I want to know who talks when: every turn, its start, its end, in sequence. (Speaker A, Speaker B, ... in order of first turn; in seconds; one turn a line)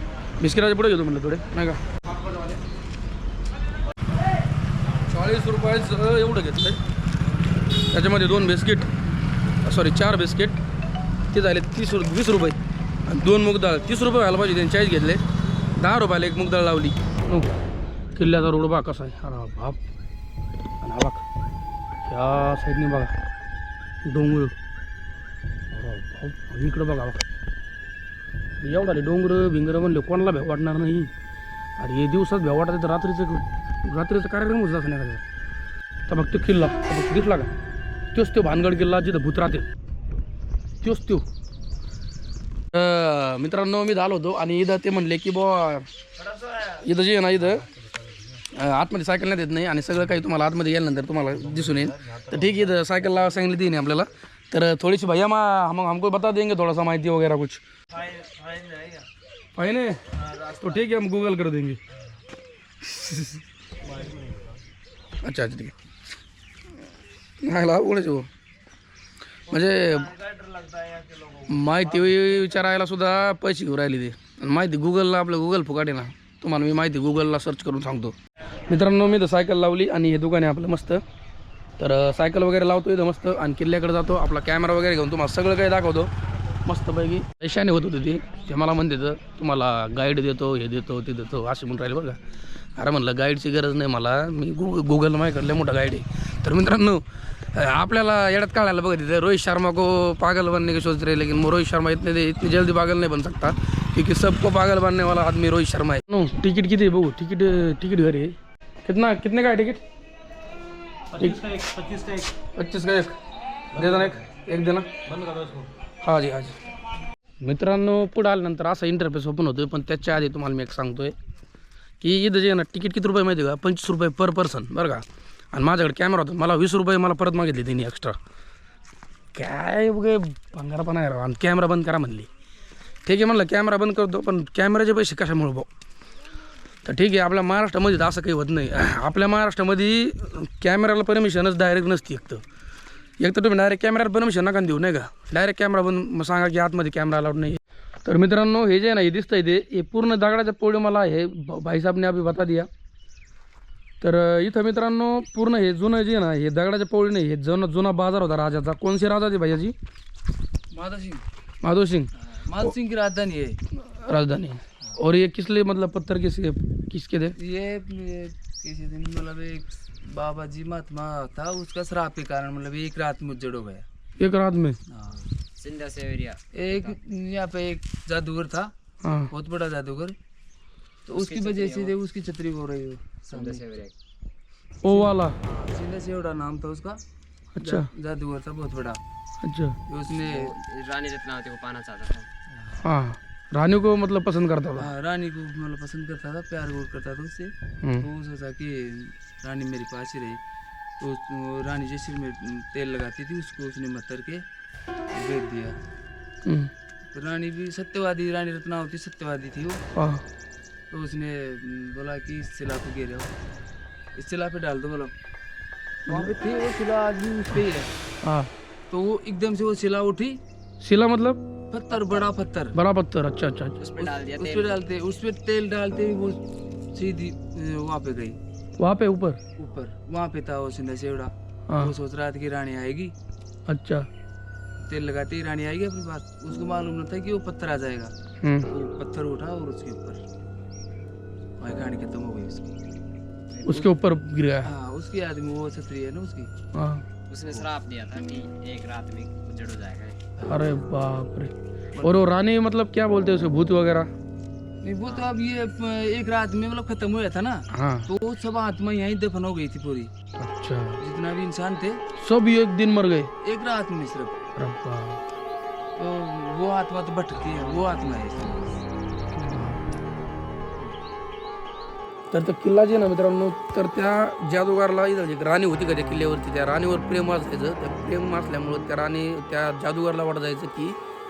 Speaker A: 0.4-2.5
Speaker A: 5.0-6.8
Speaker A: 7.8-8.9
Speaker A: 9.6-10.6
Speaker A: 11.3-15.2
Speaker A: 15.7-17.5
Speaker A: 18.2-19.8
Speaker A: 20.8-21.2
Speaker A: 22.1-23.1
Speaker A: 24.1-24.6
Speaker A: 25.7-27.3
Speaker A: 28.6-31.1
Speaker A: 31.8-35.2
Speaker A: 36.1-37.5
Speaker A: 38.1-39.7
Speaker A: 40.8-41.2
Speaker A: 42.7-45.9
Speaker A: 46.5-47.7
Speaker A: 48.4-57.6
Speaker A: 59.5-61.8
Speaker A: 62.8-63.4
Speaker A: 65.2-65.8
Speaker A: 67.4-68.3
Speaker A: 69.5-70.2
Speaker A: 71.4-78.2
Speaker A: 78.7-81.0
Speaker A: 81.8-86.1
Speaker A: 86.7-92.2
Speaker A: 92.8-109.8
Speaker A: 111.2-111.7
Speaker A: 112.4-113.2
Speaker A: 113.7-114.9
Speaker A: 116.0-116.6
Speaker A: 117.4-121.1
Speaker A: 122.0-128.2
Speaker A: 129.3-132.3
Speaker A: 133.1-135.7
Speaker A: 136.8-142.4
Speaker A: 143.2-152.7
Speaker A: 154.0-159.8
Speaker B: 160.7-161.2
Speaker A: 161.6-162.7
Speaker B: 162.3-163.6
Speaker A: 163.8-167.3
Speaker B: 167.4-173.9
Speaker A: 174.2-174.8
Speaker C: 175.6-177.0
Speaker B: 176.5-178.7
Speaker A: 179.0-179.3
Speaker B: 179.3-180.2
Speaker B: 181.1-183.6
Speaker C: 181.2-181.9
Speaker C: 183.3-183.9
Speaker A: 184.8-185.4
Speaker B: 184.9-187.0
Speaker A: 187.6-187.9
Speaker B: 187.6-189.0
Speaker A: 189.4-189.8
Speaker B: 189.9-190.5
Speaker C: 190.3-192.3
Speaker A: 192.8-194.9
Speaker B: 194.8-200.4
Speaker A: 197.8-198.1
Speaker B: 201.0-204.4
Speaker B: 205.1-205.8
Speaker A: 206.4-206.7
Speaker B: 207.1-209.8
Speaker A: 209.9-210.2
Speaker B: 210.9-213.3
Speaker B: 214.2-215.1
Speaker B: 216.1-217.9
Speaker A: 218.2-218.5
Speaker B: 218.9-220.4
Speaker A: 220.8-221.4
Speaker B: 221.7-222.8
Speaker A: 222.7-223.8
Speaker C: 223.8-224.8
Speaker B: 224.0-226.4
Speaker B: 226.9-228.4
Speaker A: 228.8-229.4
Speaker B: 229.6-233.1
Speaker A: 231.7-231.9
Speaker A: 233.7-234.1
Speaker B: 234.8-238.1
Speaker A: 238.4-238.7
Speaker B: 238.7-240.2
Speaker B: 241.6-242.8
Speaker A: 243.6-244.7
Speaker B: 244.6-246.5
Speaker A: 246.7-247.0
Speaker C: 247.3-250.2
Speaker A: 250.4-254.1
Speaker B: 254.8-260.1
Speaker A: 257.7-258.1
Speaker A: 260.4-261.0
Speaker B: 261.0-262.0
Speaker A: 262.2-263.3
Speaker B: 263.4-264.4
Speaker A: 264.6-265.2
Speaker B: 266.0-268.8
Speaker A: 269.3-269.8
Speaker A: 272.3-281.0